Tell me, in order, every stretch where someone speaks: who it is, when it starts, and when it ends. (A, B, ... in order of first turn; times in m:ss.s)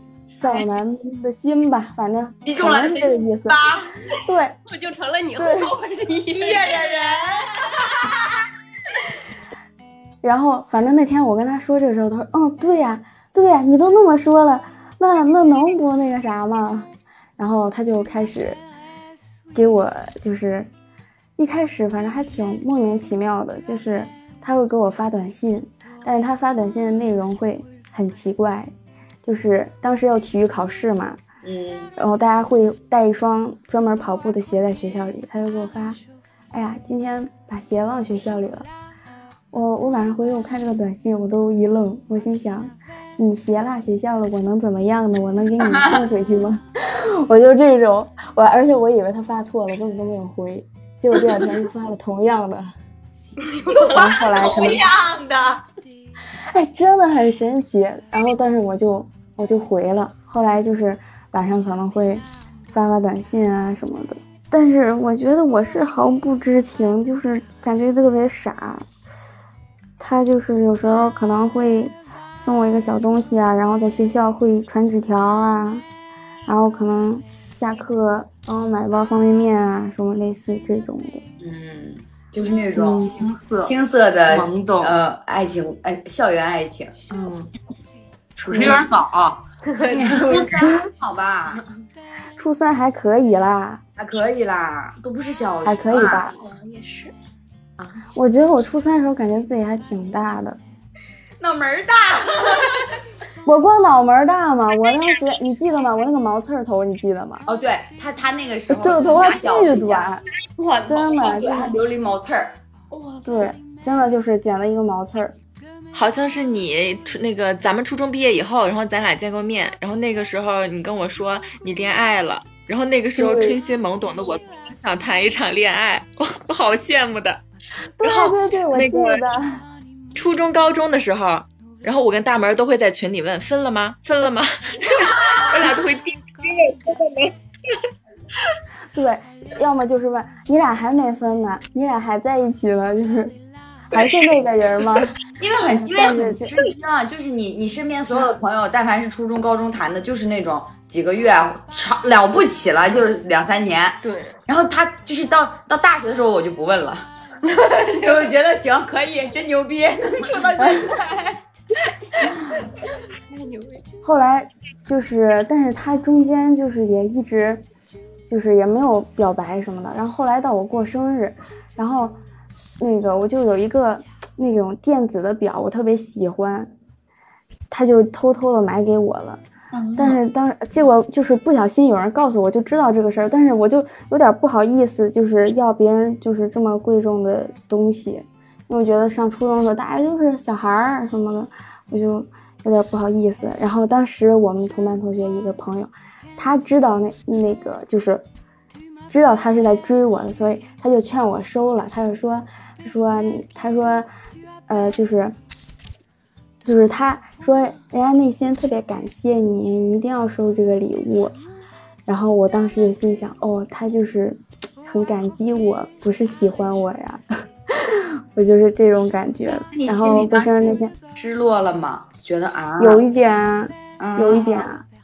0:00.4-0:03.6 A
0:02.4-0:03.9 B
0:04.2-0:04.6 A
0:04.7-0:06.9 C
0:05.4-0:05.7 A
0:06.3-0:08.2 B
0:10.2-0:18.6 A
0:19.5-0:20.7 A
0:21.4-0:28.7 A
0:29.2-0:31.2 A
0:31.4-0:31.9 B
0:32.0-0:36.0 A
0:36.5-0:38.7 A
0:39.5-0:52.7 A
0:53.7-0:55.6 B
0:53.9-0:54.8 A
0:56.5-1:08.8 A
1:10.0-1:15.8 A
1:16.5-1:21.2 A
1:21.4-1:27.1 B
1:22.8-1:23.2 A
1:23.0-1:23.7 D
1:24.3-1:25.0 D
1:27.1-1:27.5 D
1:28.4-1:29.4 D
1:28.5-1:28.9 B
1:29.7-1:30.6 C
1:29.9-1:31.6 B
1:32.4-1:33.8 A
1:34.0-1:36.3 B
1:35.6-1:36.4 A
1:36.4-1:37.1 C
1:38.2-1:40.6 A
1:41.4-1:42.9 B
1:43.4-1:47.5 A
1:47.5-1:50.1 B
1:48.7-1:50.2 A
1:50.6-1:51.1 C
1:50.9-1:51.7 A
1:51.2-1:52.6 B
1:52.9-1:53.3 C
1:53.2-1:55.4 A
1:55.9-2:07.4 E
2:03.2-2:03.6 A
2:08.0-2:09.6 A
2:08.0-2:09.2 E
2:10.2-2:17.3 E
2:18.9-2:23.4 A
2:23.9-2:25.1 A
2:25.4-2:37.1 B
2:25.8-2:26.5 A
2:34.0-2:34.4 C
2:37.5-2:38.3 C
2:37.8-2:41.4 B
2:43.3-2:43.8 C
2:44.0-2:47.6 A
2:48.3-2:52.2 A
2:52.8-2:56.7 A
2:57.7-2:59.4 A
2:59.7-3:00.2 B
3:00.0-3:18.2 A
3:19.1-3:24.1 A
3:24.7-3:25.4 A
3:26.6-3:31.4 A
3:32.1-3:40.9 A
3:39.5-3:43.0 B
3:42.8-3:44.8 A
3:44.0-3:44.7 B